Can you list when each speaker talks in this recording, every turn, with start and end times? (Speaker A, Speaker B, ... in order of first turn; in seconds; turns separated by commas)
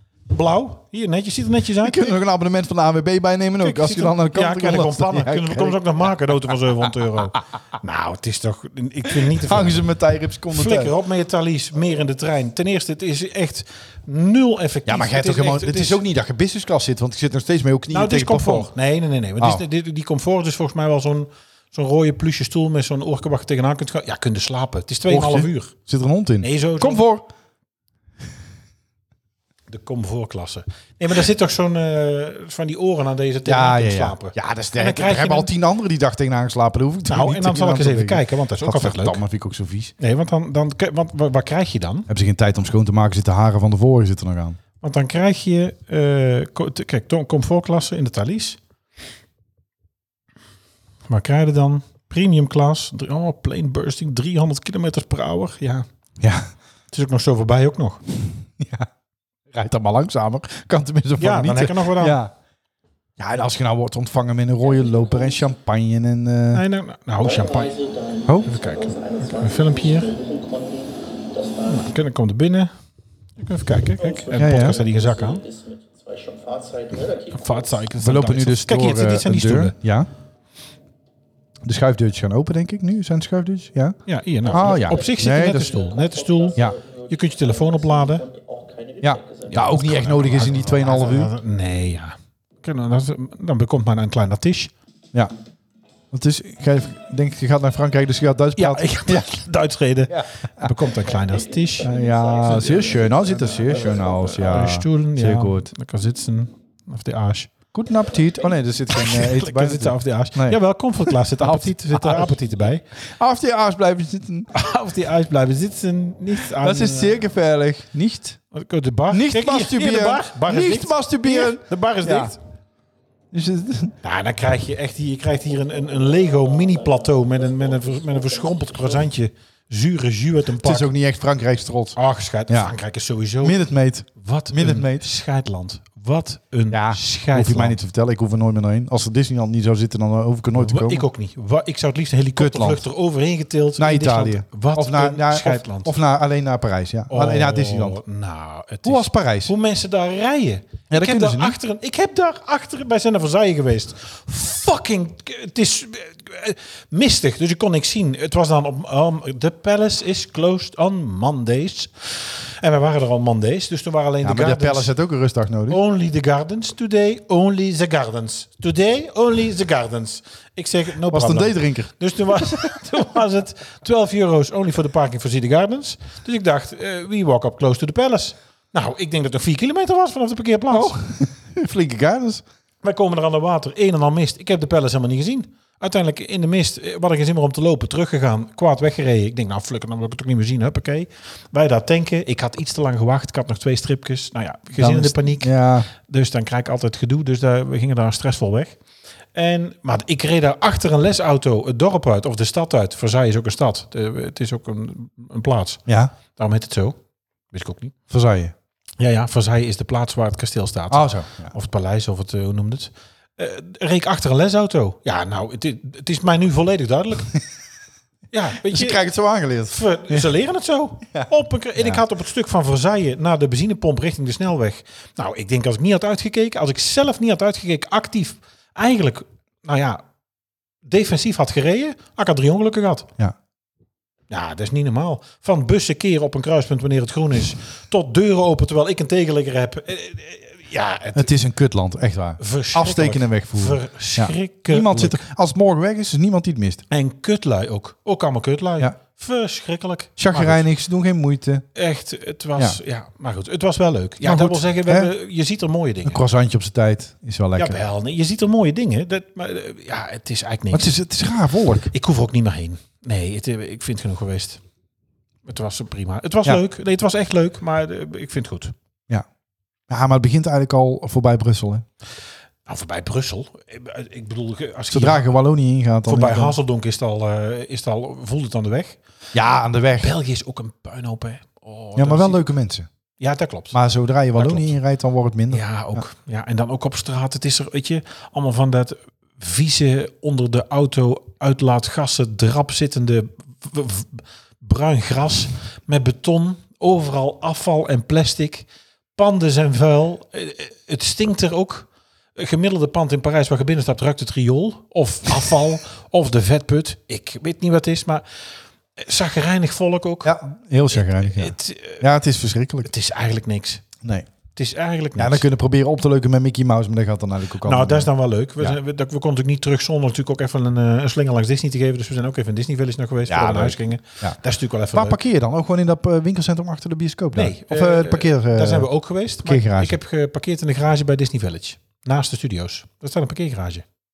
Speaker A: 0.3-2.2, Speaker B: 1.8-5.8, Speaker A: 3.6-9.9, Speaker B: 9.2-10.9, Speaker A: 10.5-16.0, Speaker B: 14.9-18.7, Speaker A: 17.9-25.7, Speaker B: 25.1-27.3, Speaker A: 26.4-27.0, Speaker A: 29.7-35.5, Speaker B: 33.4-39.9, Speaker A: 37.1-39.2, Speaker A: 40.0-42.1, Speaker B: 42.1-44.6, Speaker A: 44.8-48.6, Speaker A: 51.1-55.9, Speaker B: 56.2-56.5, Speaker A: 56.9-58.0, Speaker B: 58.2-58.9, Speaker B: 59.5-62.3, Speaker A: 61.2-62.2, Speaker B: 63.2-66.6, Speaker C: 64.6-65.5, Speaker A: 66.5-67.7, Speaker C: 67.2-71.9, Speaker B: 68.2-68.5, Speaker A: 68.4-70.1, Speaker A: 71.7-72.7, Speaker A: 73.4-75.4, Speaker C: 74.0-77.8, Speaker B: 74.3-74.8, Speaker A: 77.3-79.8, Speaker B: 78.0-80.1, Speaker B: 81.6-85.8, Speaker A: 84.1-88.2, Speaker C: 84.5-89.8, Speaker B: 89.0-91.3, Speaker A: 89.5-94.7, Speaker B: 96.1-99.3, Speaker A: 98.5-101.9, Speaker B: 100.1-100.8, Speaker C: 101.0-104.3, Speaker B: 101.8-105.7, Speaker A: 102.4-107.5, Speaker B: 107.7-112.4, Speaker A: 108.9-112.8, Speaker B: 113.1-114.5, Speaker A: 114.5-117.2, Speaker B: 116.6-118.4, Speaker A: 118.5-122.4, Speaker B: 119.1-122.3, Speaker B: 123.3-123.9, Speaker A: 124.0-130.9, Speaker C: 125.5-129.1, Speaker B: 130.6-132.0, Speaker A: 131.9-133.6, Speaker B: 132.5-132.7, Speaker B: 133.4-135.1, Speaker A: 134.2-137.8, Speaker B: 136.7-141.1, Speaker A: 140.5-145.9, Speaker B: 142.3-142.8, Speaker B: 143.8-148.0, Speaker A: 147.1-164.9, Speaker B: 148.8-149.5, Speaker B: 150.9-151.6, Speaker B: 164.2-165.8, Speaker A: 165.7-180.9, Speaker B: 171.1-172.7, Speaker B: 180.7-182.4, Speaker A: 182.8-198.8, Speaker B: 194.8-195.9, Speaker A: 199.3-207.0, Speaker B: 205.9-206.1, Speaker A: 207.5-207.9, Speaker B: 208.1-208.5, Speaker A: 209.0-217.3, Speaker B: 210.9-211.5, Speaker A: 218.3-219.0, Speaker B: 218.7-220.3, Speaker A: 219.7-230.0, Speaker B: 221.1-222.0, Speaker A: 230.8-233.1, Speaker A: 234.3-241.3, Speaker B: 241.1-246.8, Speaker A: 242.4-245.2, Speaker A: 246.9-250.7, Speaker B: 250.2-251.7, Speaker A: 251.7-256.2, Speaker B: 254.2-255.1, Speaker B: 256.1-257.8, Speaker A: 257.6-260.9, Speaker B: 260.7-261.9, Speaker A: 261.9-264.6, Speaker A: 265.4-268.7, Speaker B: 269.9-271.8, Speaker A: 272.6-275.3, Speaker B: 274.9-276.6, Speaker A: 276.1-279.0, Speaker B: 279.3-280.1, Speaker A: 280.0-282.5, Speaker B: 281.9-282.9, Speaker A: 283.2-283.8, Speaker B: 283.7-286.0, Speaker A: 284.3-284.7, Speaker A: 285.5-308.2, Speaker A: 308.9-310.4, Speaker B: 310.2-312.9, Speaker A: 310.9-312.0, Speaker A: 312.8-313.8, Speaker B: 314.0-314.3, Speaker A: 314.5-315.4, Speaker B: 315.2-318.1, Speaker A: 317.6-325.2, Speaker B: 323.3-324.4, Speaker B: 324.9-328.9, Speaker A: 327.3-333.8, Speaker B: 329.4-329.9